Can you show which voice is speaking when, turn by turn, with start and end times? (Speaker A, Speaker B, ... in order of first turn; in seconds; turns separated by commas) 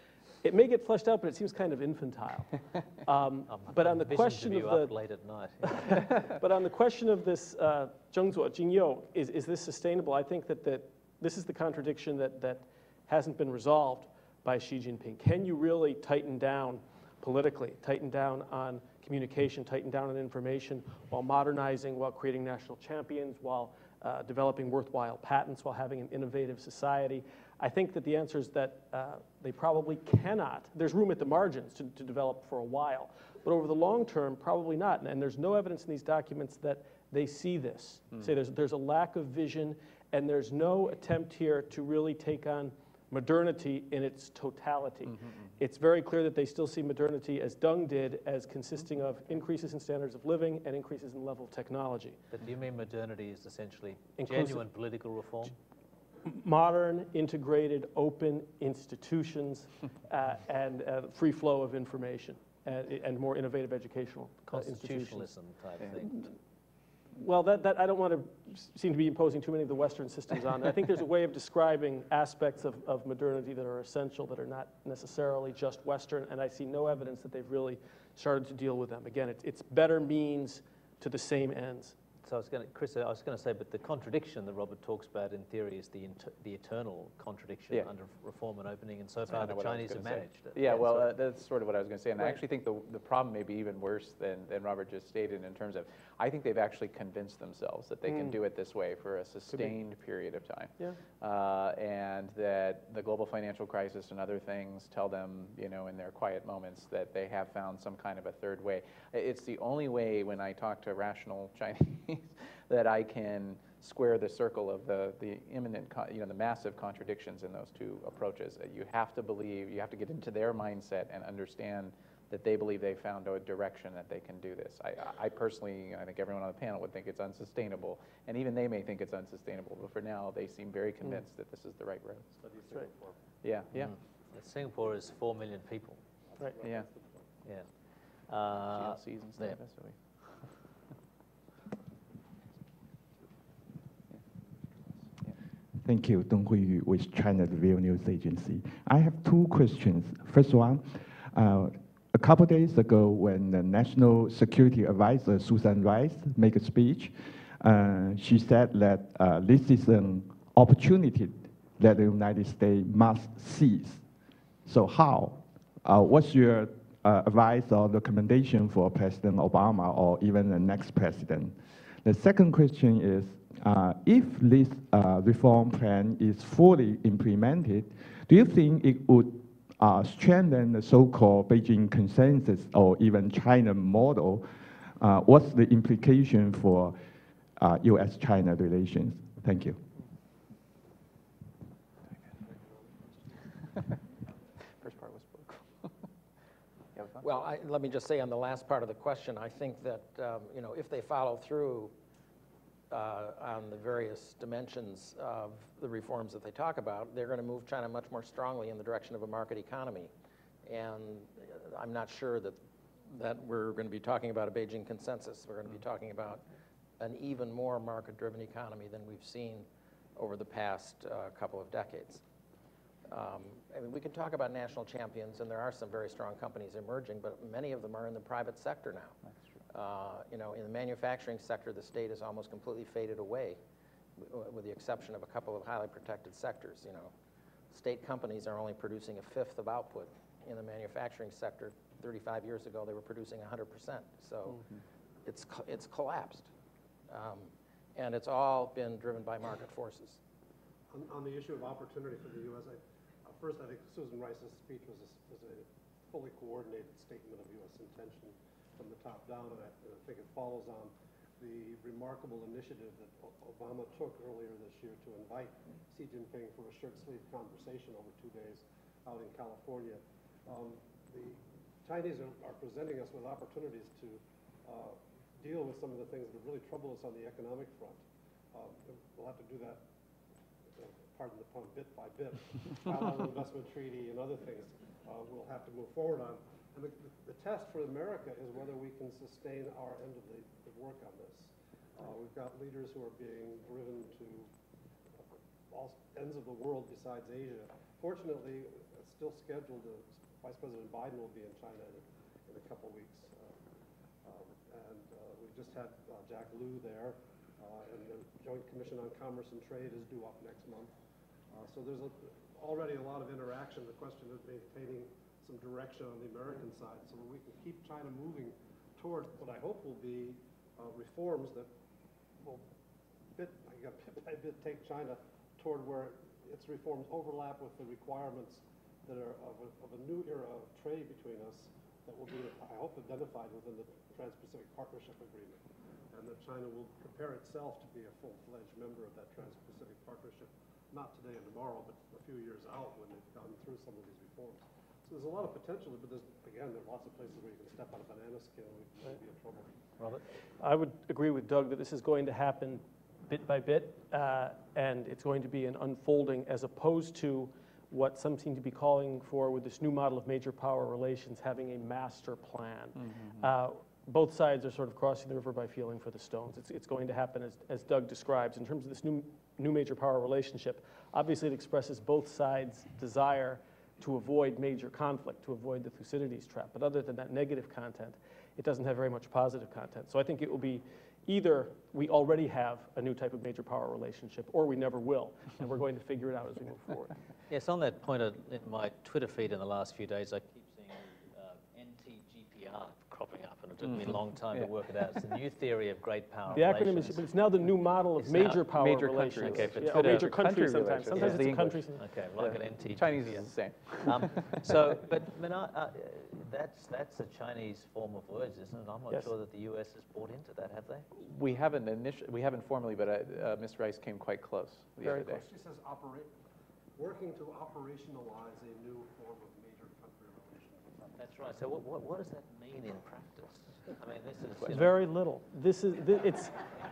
Speaker A: 0.4-4.9, Speaker B: 3.5-6.1, Speaker A: 5.6-52.2, Speaker C: 45.1-45.4, Speaker B: 52.3-55.5, Speaker A: 54.2-54.6, Speaker A: 56.2-65.3, Speaker B: 64.5-66.2, Speaker A: 66.0-66.3, Speaker A: 67.1-82.0, Speaker B: 82.2-91.1, Speaker C: 89.3-132.3, Speaker A: 98.1-98.3, Speaker D: 132.3-133.2, Speaker C: 133.4-133.9, Speaker B: 133.7-136.0, Speaker D: 136.3-137.3, Speaker B: 138.3-139.6, Speaker C: 138.7-140.5, Speaker E: 145.8-164.0, Speaker E: 164.7-187.0, Speaker E: 187.6-189.8, Speaker D: 192.4-193.6, Speaker C: 194.8-195.9, Speaker C: 197.0-197.2, Speaker F: 197.2-201.9, Speaker F: 202.9-210.1, Speaker F: 210.7-216.4, Speaker F: 217.0-222.2, Speaker F: 223.1-229.2, Speaker F: 229.7-233.6, Speaker F: 234.2-237.1, Speaker F: 237.7-244.6, Speaker F: 245.2-246.5, Speaker F: 247.1-250.2, Speaker D: 250.9-278.0, Speaker D: 278.5-279.8, Speaker D: 280.8-294.5, Speaker D: 295.7-303.6, Speaker D: 304.2-310.9, Speaker D: 311.5-321.7, Speaker D: 323.4-349.7, Speaker A: 350.6-387.1, Speaker C: 363.0-363.5, Speaker B: 387.5-397.2, Speaker C: 393.9-394.7, Speaker A: 396.5-402.0, Speaker B: 398.2-398.6, Speaker C: 398.7-404.7, Speaker B: 399.4-400.4, Speaker B: 401.1-401.4, Speaker B: 402.0-411.1, Speaker C: 411.2-415.4, Speaker D: 415.1-416.3, Speaker D: 417.0-421.2, Speaker B: 421.2-425.0, Speaker A: 424.6-426.6